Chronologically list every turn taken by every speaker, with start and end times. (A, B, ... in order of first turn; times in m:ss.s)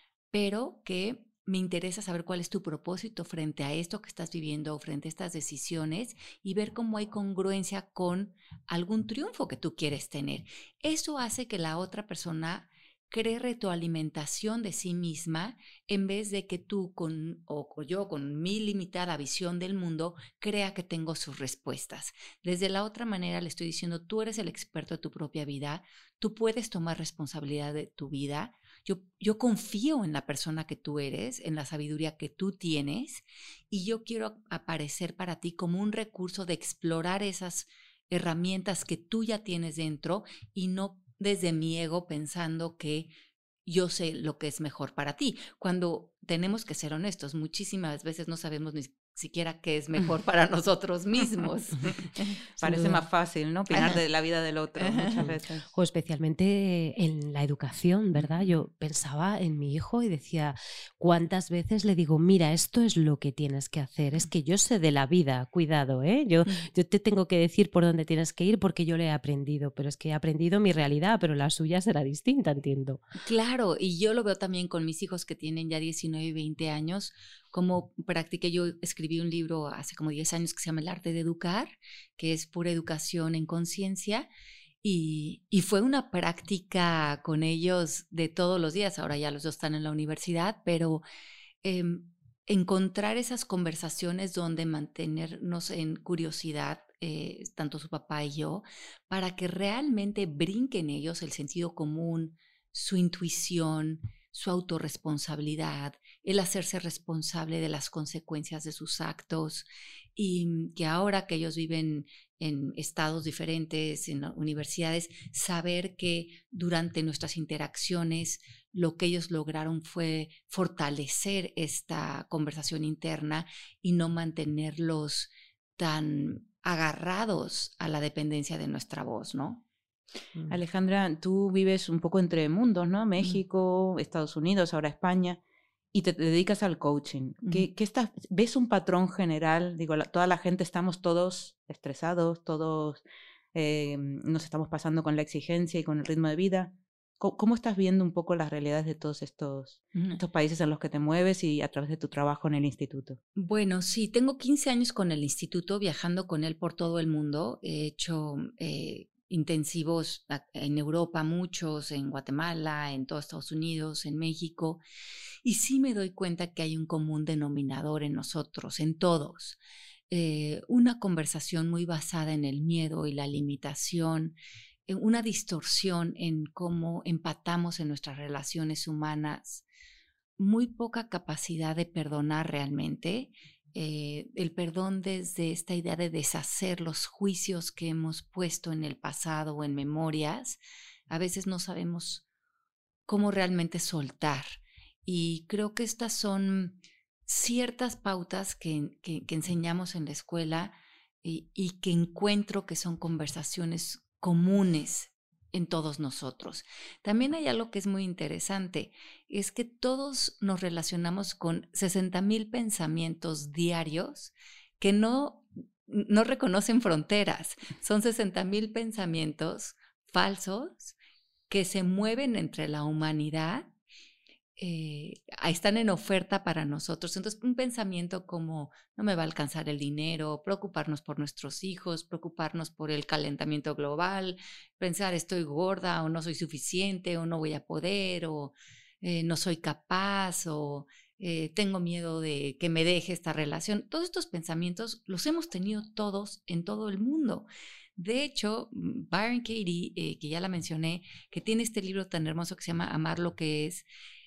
0:00.3-0:43.1 A
0:43.7-0:52.4 A
0:52.6-0:55.7 B
0:52.6-0:53.0 C
0:53.7-0:54.0 A
0:54.8-0:55.3 A
0:55.2-1:13.0 C
1:13.2-1:24.3 A
1:24.8-1:31.0 A
1:31.6-2:09.6 A
2:10.5-2:15.4 B
2:15.9-2:23.0 B
2:17.4-2:17.7 A
2:23.5-2:33.2 B
2:30.0-2:30.2 A
2:33.4-2:44.8 A
2:45.4-2:49.6 A
2:50.1-2:54.4 A
2:54.9-2:59.6 A
3:00.4-3:12.2 A
3:13.1-3:41.0 A
3:41.5-3:43.7 A
3:44.6-4:13.9 A